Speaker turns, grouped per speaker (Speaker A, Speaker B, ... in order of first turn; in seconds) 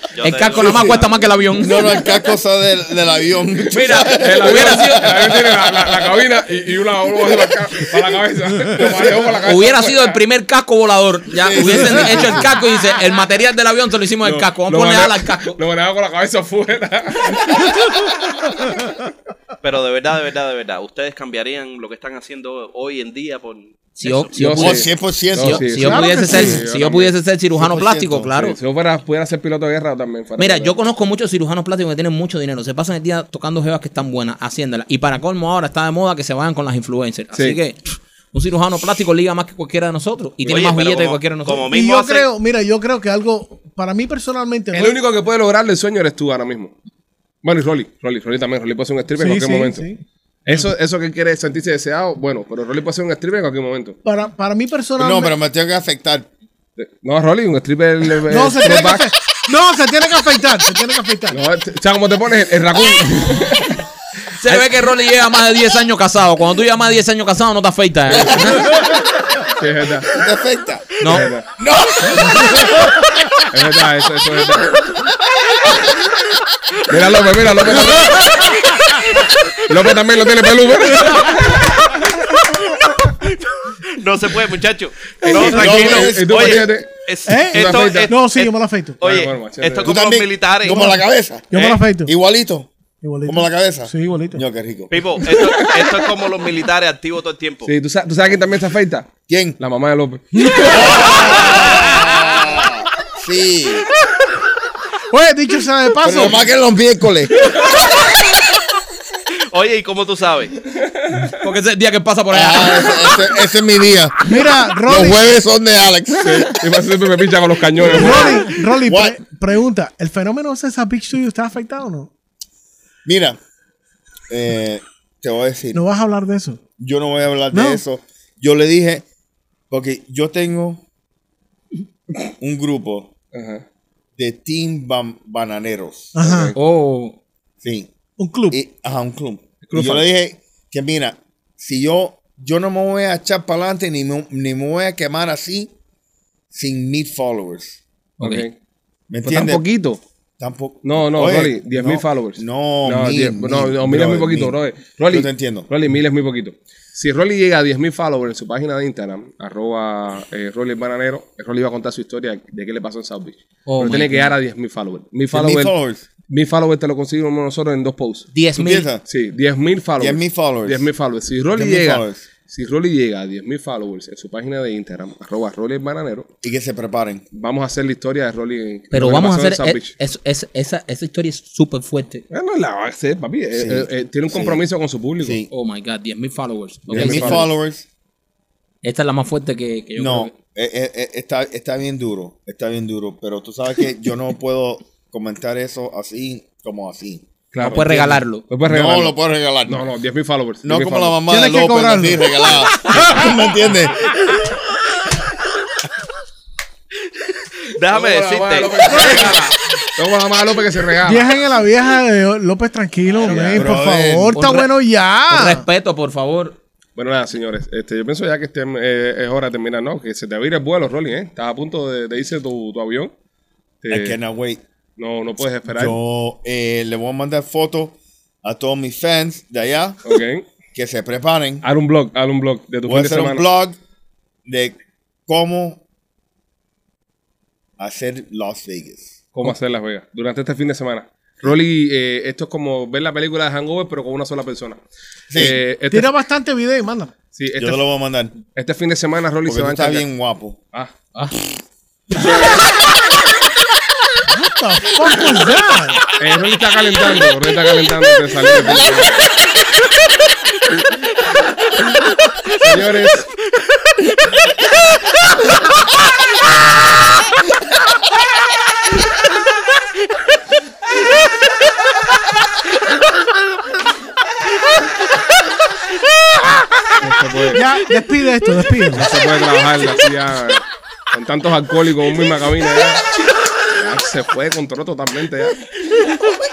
Speaker A: 0.1-1.3, 19.6-24.7, 40.5-42.3, 83.2-91.0, 91.5-91.8, 94.9-97.7, 109.5-110.5, 207.7-209.4
Speaker B: 0.2-1.9, 3.7-5.2, 9.4-15.5, 24.0-28.6, 30.4-41.7, 64.3-68.7, 71.0-71.3, 111.4-113.2, 136.5-137.2, 148.2-148.4, 163.7-164.3, 168.3-168.9, 178.9-182.2, 185.5-187.4, 188.8-190.3, 197.6-198.4, 213.1-213.7, 214.3-214.7, 215.3-216.6
Speaker C: 0.5-1.0, 1.6-5.8, 11.3-12.5, 24.6-25.7, 27.5-28.4, 55.0-56.3, 68.2-68.8, 70.1-72.8, 85.4-86.8, 89.8-91.5, 92.0-92.7, 93.2-95.2, 99.3-99.6, 100.6-103.9, 106.0-107.7, 112.3-114.2, 114.8-116.5, 118.8-119.2, 123.0-123.4, 124.3-125.8, 126.8-129.0, 129.7-130.8, 132.1-133.1, 134.2-136.2, 137.6-137.9, 138.5-145.7, 146.5-147.8, 149.1-149.6, 150.4-155.7, 165.3-166.0, 168.6-169.0, 170.0-170.9, 171.5-172.2, 176.4-177.2, 183.5-184.6, 185.2-185.5, 186.9-187.9, 190.0-198.1, 198.6-199.8, 200.6-204.3, 213.5-214.4, 223.9-224.6, 225.7-230.0, 230.7-231.6, 232.8-233.8, 234.4-234.8, 235.3-235.8, 237.8-239.5, 245.3-245.6, 247.5-248.3, 249.4-250.6
Speaker D: 4.1-10.2, 14.2-18.0, 24.4-27.1, 28.4-30.8, 37.3-37.6, 44.7-46.7, 47.4-49.9, 50.5-54.0, 56.8-59.1, 61.3-63.8, 69.6-70.1, 71.1-71.5, 73.5-74.9, 76.9-78.6, 79.7-82.0, 85.2-88.2, 89.0-89.9, 97.7-101.2, 110.9-111.3, 116.2-118.5, 133.3-133.6, 136.2-136.6, 139.6-140.1, 148.2-148.6, 149.2-150.0, 150.8-165.7, 166.3-168.3, 169.1-176.3, 177.3-179.9, 182.3-185.4, 186.9-187.5, 197.5-199.1, 199.7-201.2, 207.9-211.3, 213.3-213.5, 216.9-223.1, 223.8-224.2, 225.0-225.9, 230.0-230.5, 231.6-233.4, 239.3-244.8, 245.3-246.1, 247.3-247.8, 248.5-250.0, 256.2-259.3, 262.5-263.3, 277.0-277.6, 278.9-283.1, 283.7-285.6
Speaker E: 25.7-26.6, 41.7-45.0, 49.1-50.0, 54.0-55.4, 58.2-61.4, 87.2-89.0, 90.6-91.0, 91.5-92.1, 93.0-94.4, 105.1-106.4, 114.2-115.2, 117.9-122.1, 125.7-126.6, 127.5-127.8, 136.1-136.5, 138.2-138.6, 201.2-202.4, 208.9-209.3, 211.0-215.7, 245.9-247.1, 254.3-256.1, 277.5-279.1